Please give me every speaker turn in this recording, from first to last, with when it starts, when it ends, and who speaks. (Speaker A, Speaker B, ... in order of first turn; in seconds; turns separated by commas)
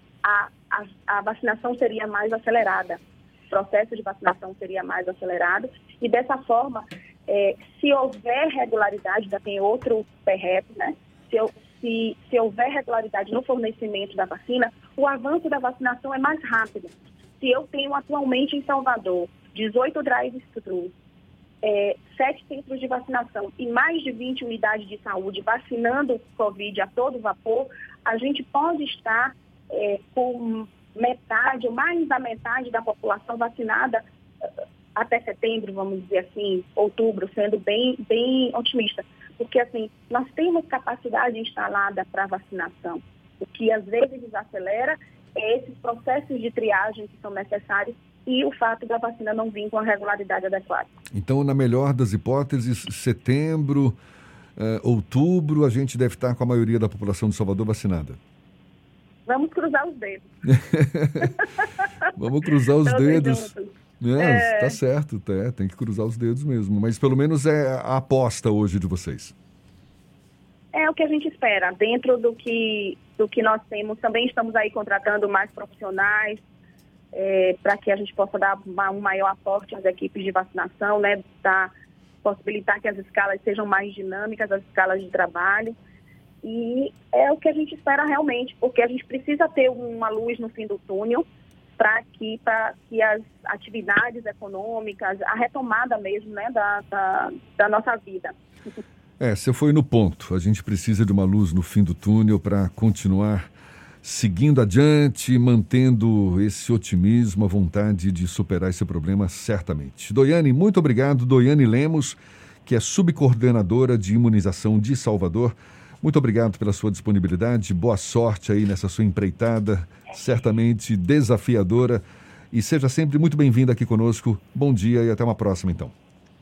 Speaker A: 0.2-20.9, Speaker A: 21.6-50.9, Speaker B: 51.1-54.0, Speaker B: 54.6-58.2, Speaker A: 59.3-60.2, Speaker B: 60.5-61.3, Speaker B: 62.2-69.3, Speaker A: 62.8-64.8, Speaker A: 70.7-76.4, Speaker A: 77.1-81.7, Speaker A: 82.2-85.7, Speaker A: 86.4-91.2, Speaker A: 91.8-98.3, Speaker B: 99.2-103.5, Speaker B: 104.0-125.9